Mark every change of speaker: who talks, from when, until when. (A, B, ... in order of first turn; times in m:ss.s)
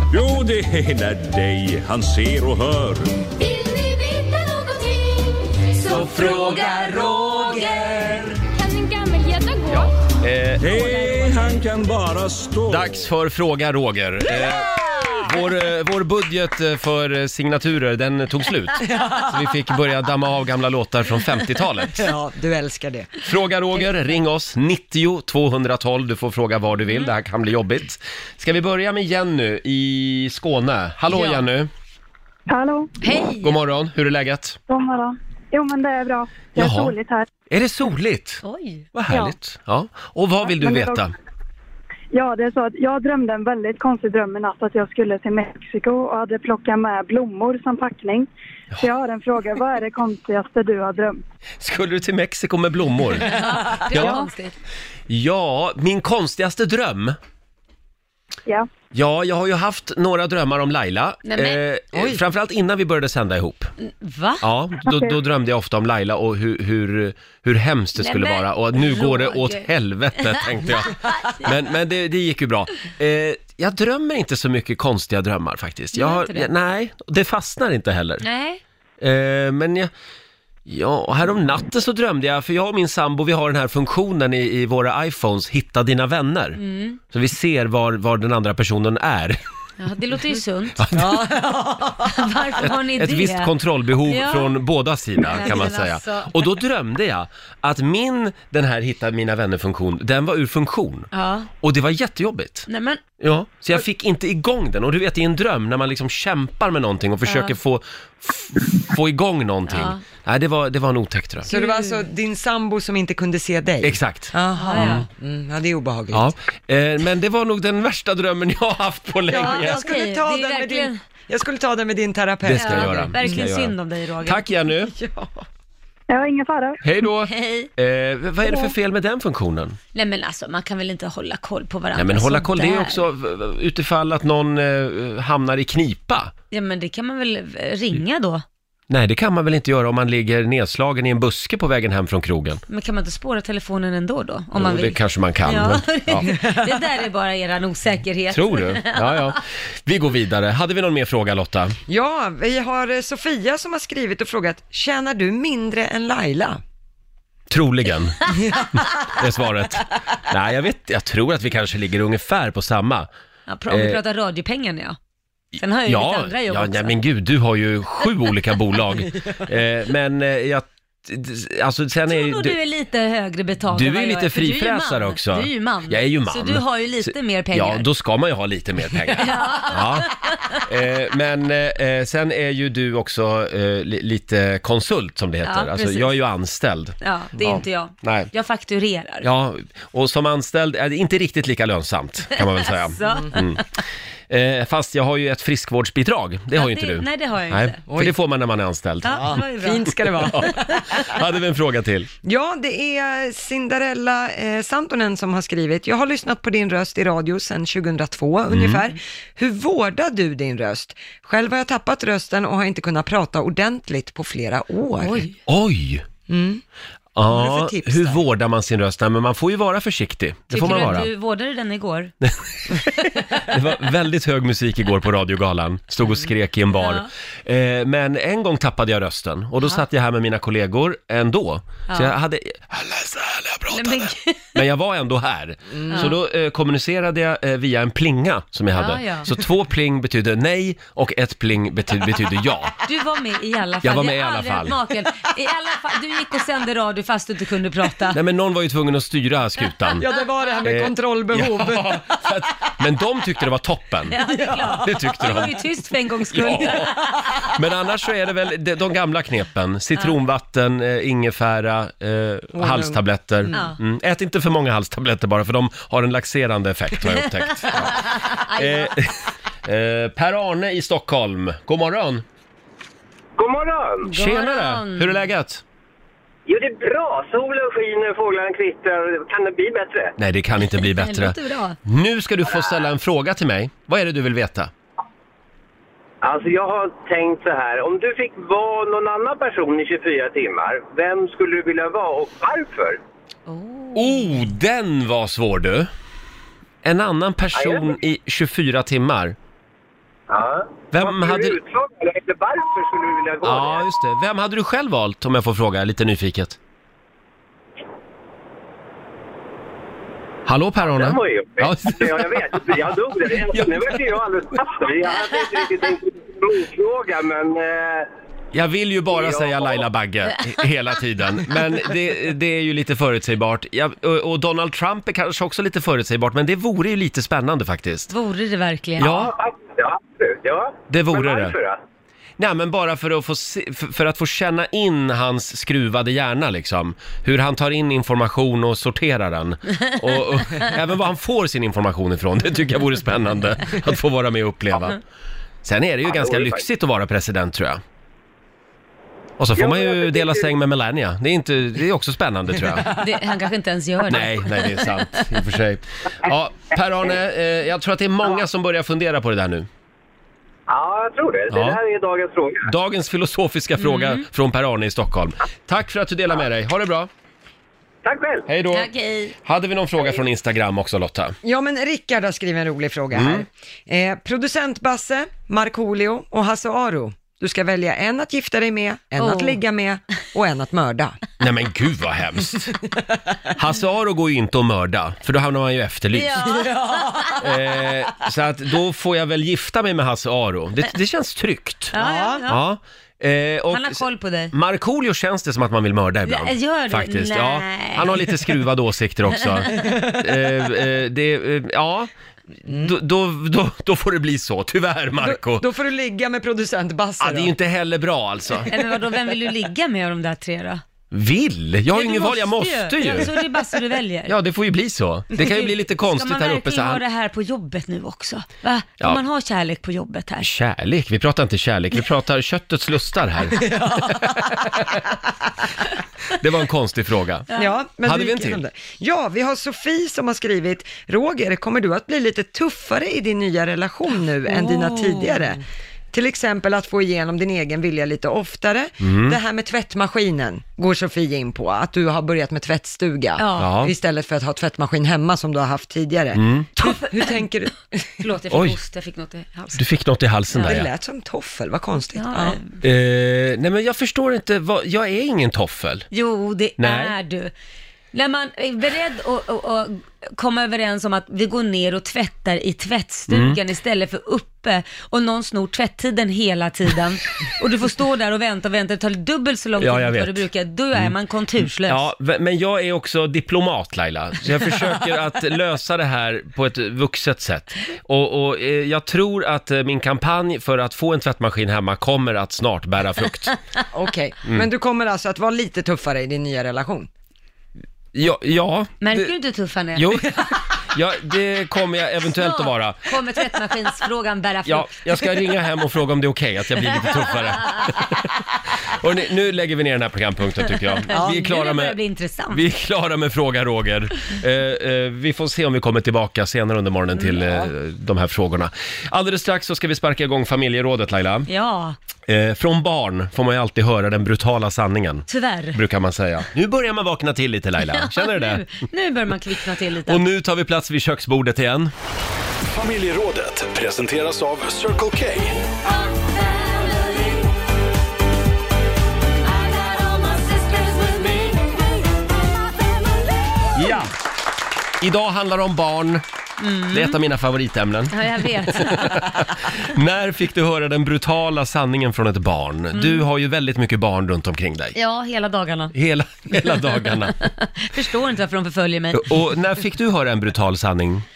0:00.1-0:03.3 A
0:03.4-0:09.9 B
0:05.9-0:08.2 C
0:06.5-0:07.8 D
0:09.7-0:10.8 C
0:10.6-0:13.1 A
0:10.8-0:11.6 B
0:12.7-0:22.1 C
0:18.9-0:19.2 D
0:22.0-0:23.1 D
0:23.2-0:31.7 C
0:31.1-0:31.4 E
0:32.5-0:32.9 F
0:33.0-0:33.5 E
0:33.4-0:34.6 C
0:34.7-0:37.3 F
0:36.6-0:37.0 C
0:37.5-0:38.4 C
0:38.4-0:38.8 E
0:38.9-0:41.1 C
0:40.5-0:41.0 F
0:42.1-0:51.2 F
0:51.6-0:53.4 C
0:53.2-0:54.5 E
0:53.9-0:54.2 C
0:55.1-0:57.2 C
0:58.9-1:03.7 C
1:01.2-1:01.6 E
1:01.9-1:02.2 D
1:04.0-1:04.4 E
1:04.4-1:18.2 C
1:08.0-1:09.7 E
1:10.2-1:11.4 E
1:15.9-1:16.5 E
1:18.2-1:18.6 E
1:19.0-1:19.9 C
1:20.7-1:26.6 C
1:26.6-1:27.0 E
1:27.1-1:29.4 C
1:29.8-1:30.8 E
1:30.8-1:31.3 C
1:31.0-1:32.3 D
1:32.0-1:33.5 E
1:32.6-1:41.1 C
1:34.1-1:34.5 E
1:35.2-1:36.5 E
1:41.1-1:41.5 E
1:41.6-1:42.7 C
1:42.7-1:43.0 E
1:43.2-1:51.5 C
1:47.3-1:47.5 E
1:49.7-1:50.0 E
1:51.5-1:56.3 D
1:51.5-1:52.0 E
1:53.8-1:55.0 C
1:54.6-1:55.0 E
1:56.1-1:59.8 C
1:59.3-2:03.5 D
1:59.3-2:01.0 E
2:02.4-2:03.7 C
2:02.6-2:04.4 E
2:04.2-2:04.9 C
2:04.9-2:05.4 D
2:06.1-2:06.8 F
2:06.8-2:09.8 C
2:07.3-2:07.7 E
2:09.9-2:13.0 E
2:12.0-2:16.3 C
2:16.5-2:18.4 E
2:18.9-2:22.6 C
2:22.7-2:29.3 E
2:24.6-2:26.3 C
2:26.3-2:26.8 D
2:28.3-2:31.8 C
2:31.9-2:36.6 D
2:37.5-2:38.3 C
2:38.3-2:38.6 D
2:39.0-2:43.1 C
2:43.5-2:45.0 E
2:43.7-2:44.0 C
2:45.6-2:47.0 E
2:45.8-2:52.6 C
2:52.1-2:57.8 E
2:53.7-3:07.0 C
2:59.2-3:00.6 E
3:05.4-3:06.2 E
3:07.0-3:09.3 E
3:08.0-3:08.3 C
3:09.2-3:13.6 C
3:12.4-3:13.5 E
3:13.0-3:13.3 D
3:14.3-3:19.4 C
3:16.6-3:17.8 E
3:17.9-3:18.1 D
3:19.0-3:19.9 E
3:19.2-3:20.8 D
3:20.3-3:22.1 C
3:22.2-3:35.3 D
3:28.5-3:28.8 C
3:35.0-3:35.4 E
3:35.5-3:36.0 C
3:36.3-3:36.6 D
3:37.2-3:41.1 C
3:37.3-3:38.2 D
3:40.5-3:42.1 E
3:43.0-4:02.8 C
3:46.8-3:47.1 E
3:51.9-3:52.1 E
3:53.7-3:54.6 E
3:55.7-3:56.1 D
3:58.8-3:59.4 E
4:02.8-4:08.2 E
4:03.8-4:04.8 C
4:08.1-4:10.1 C
4:10.0-4:12.1 D
4:10.6-4:14.2 C
4:14.1-4:17.1 E
4:14.3-4:14.8 D
4:14.7-4:15.6 C
4:16.3-4:32.2 C
4:22.5-4:23.7 D
4:27.7-4:28.9 E
4:33.4-4:34.1 G
4:34.1-4:35.2 E
4:34.1-4:35.6 C
4:36.5-4:40.2 G
4:40.2-4:44.7 C
4:40.8-4:41.8 E
4:42.4-4:42.8 G
4:46.2-4:53.0 G
4:53.5-4:54.4 E
4:54.0-4:55.9 C
4:56.8-4:59.4 C
4:57.5-4:58.0 G
5:00.3-5:03.9 G
5:00.9-5:01.6 C
5:03.4-5:06.6 C
5:10.5-5:12.7 C
5:10.8-5:18.1 G
5:13.5-5:14.0 C
5:18.5-5:28.1 C
5:19.1-5:19.9 G
5:28.1-5:29.1 E
5:29.0-5:29.3 C
5:29.0-5:31.8 G
5:30.9-5:31.6 C
5:32.4-5:45.0 C
5:45.6-5:47.8 C
5:46.1-5:46.6 G
5:49.4-5:52.9 C
5:49.6-5:50.5 G
5:52.9-5:55.1 E
5:54.1-5:59.7 C
6:00.7-6:02.7 G
6:01.5-6:01.8 C
6:02.6-6:07.1 C
6:03.8-6:04.2 E
6:08.0-6:08.5 G
6:08.5-6:08.9 C
6:08.7-6:09.4 E
6:09.4-6:11.4 C
6:11.4-6:21.2 D
6:13.1-6:13.4 C
6:19.2-6:19.6 E
6:21.4-6:22.7 C
6:23.5-6:26.4 C
6:26.1-6:27.4 E
6:26.4-6:27.4 D
6:27.4-6:31.9 C
6:31.9-6:32.6 E
6:32.0-6:32.5 D
6:32.5-6:42.1 C
6:33.7-6:34.5 E
6:36.3-6:38.5 E
6:42.6-6:45.6 C
6:45.2-6:47.6 D
6:47.2-6:48.7 C
6:48.7-6:50.8 E
6:51.1-6:53.3 C
6:51.9-6:54.3 E
6:54.3-6:57.0 C
6:55.4-7:00.5 E
7:00.4-7:03.7 C
7:03.6-7:04.4 D
7:06.4-7:07.5 C
7:07.5-7:28.1 D
7:08.0-7:08.6 C
7:14.5-7:15.6 E
7:19.0-7:19.4 C
7:23.4-7:23.7 E
7:23.6-7:23.9 C
7:26.4-7:26.7 C
7:26.8-7:27.4 E
7:28.2-7:29.8 E
7:28.5-7:28.8 C
7:29.8-7:30.9 C
7:30.6-7:32.6 D
7:32.2-7:32.7 E
7:32.8-7:36.1 C
7:36.1-7:37.5 E
7:36.8-7:37.1 C
7:38.1-7:52.1 E
7:43.3-7:43.6 C
7:49.8-7:51.1 C
7:51.8-8:03.5 C
8:03.9-8:07.1 D
8:08.1-8:09.3 C
8:09.0-8:10.3 E
8:10.0-8:13.1 C
8:12.3-8:15.4 E
8:14.7-8:18.2 C
8:18.8-8:22.0 C
8:21.1-8:22.6 E
8:21.1-8:21.4 D
8:22.5-8:31.5 C
8:31.5-8:32.0 E
8:32.3-8:38.6 C
8:35.3-8:35.8 E
8:37.9-8:40.2 E
8:40.1-8:41.9 C
8:42.7-8:45.6 H
8:46.0-8:47.4 E
8:49.9-8:51.7 E
8:53.8-8:54.1 C
8:55.0-8:56.2 C
8:56.6-8:57.2 E
8:56.9-8:58.2 C
8:58.1-8:59.5 E
8:58.7-9:05.0 C
9:02.9-9:03.2 E
9:05.0-9:05.9 E
9:05.9-9:07.4 C
9:06.7-9:09.4 E
9:09.1-9:11.2 C